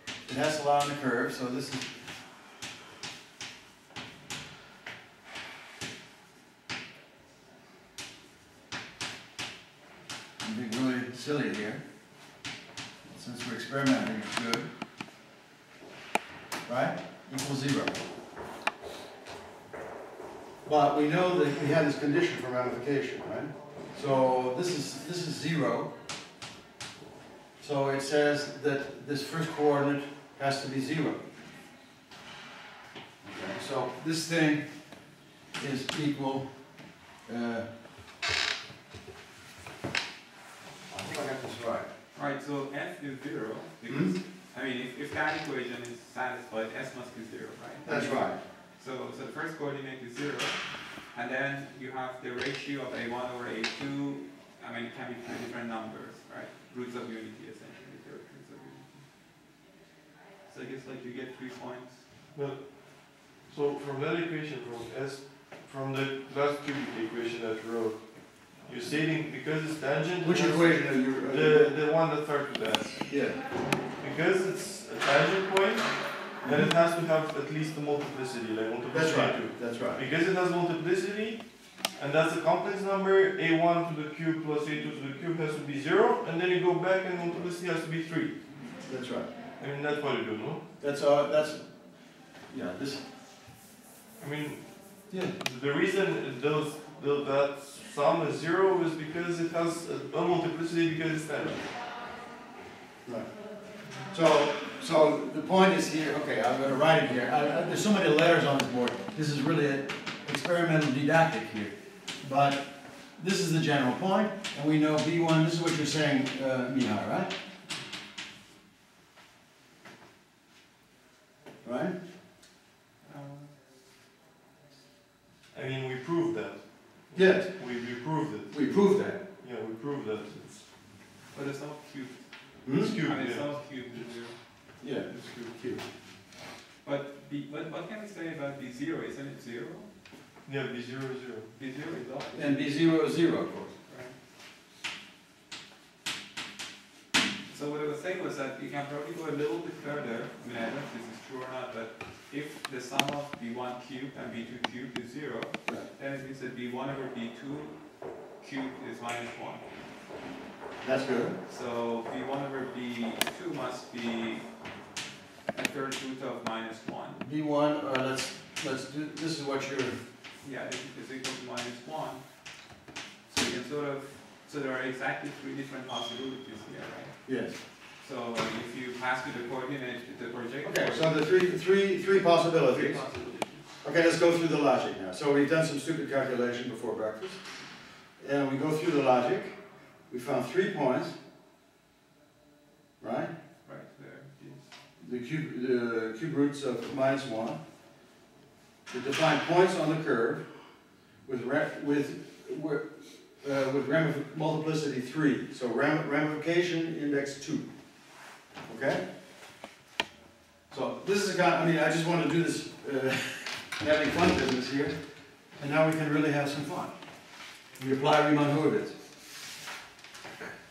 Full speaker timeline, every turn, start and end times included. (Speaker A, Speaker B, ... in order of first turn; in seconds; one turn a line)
Speaker A: 0.2-1.9
Speaker A: 10.4-11.8
Speaker A: 13.0-14.7
Speaker A: 16.6-18.0
Speaker A: 20.6-25.9
Speaker A: 27.6-31.3
Speaker A: 33.2-34.7
Speaker A: 35.5-36.5
Speaker A: 37.2-37.7
Speaker A: 40.9-41.9
Speaker B: 42.1-59.0
Speaker A: 43.9-44.1
Speaker A: 47.8-48.4
Speaker B: 60.5-62.0
Speaker C: 62.3-73.1
Speaker A: 70.2-71.7
Speaker A: 73.1-73.4
Speaker C: 74.0-88.4
Speaker A: 76.4-76.7
Speaker A: 78.9-80.0
Speaker A: 88.8-89.3
Speaker C: 89.6-90.6
Speaker A: 90.8-91.7
Speaker A: 92.5-93.0
Speaker C: 94.2-101.7
Speaker A: 95.1-95.3
Speaker A: 103.0-103.3
Speaker A: 104.1-117.3
Speaker A: 121.6-121.9
Speaker B: 123.0-123.5
Speaker C: 125.5-128.7
Speaker A: 127.1-127.6
Speaker A: 128.5-129.2
Speaker C: 129.4-130.7
Speaker B: 131.3-134.3
Speaker A: 132.6-132.9
Speaker C: 132.7-134.1
Speaker A: 134.8-135.8
Speaker B: 136.8-139.9
Speaker C: 140.4-141.5
Speaker B: 141.6-142.6
Speaker A: 142.3-143.7
Speaker B: 143.9-144.1
Speaker B: 147.5-157.8
Speaker B: 158.4-159.6
Speaker A: 160.8-161.4
Speaker B: 161.5-164.4
Speaker B: 165.5-167.2
Speaker A: 167.2-170.0
Speaker B: 170.4-172.2
Speaker B: 173.3-181.2
Speaker A: 177.2-177.6
Speaker A: 180.6-183.0
Speaker B: 182.6-183.6
Speaker A: 183.8-187.4
Speaker A: 188.2-189.6
Speaker A: 190.1-191.2
Speaker A: 193.0-193.3
Speaker B: 193.6-194.6
Speaker A: 195.0-197.6
Speaker A: 198.9-200.5
Speaker A: 201.2-207.7
Speaker A: 208.7-209.0
Speaker A: 210.7-215.0
Speaker A: 215.6-216.9
Speaker A: 217.8-219.0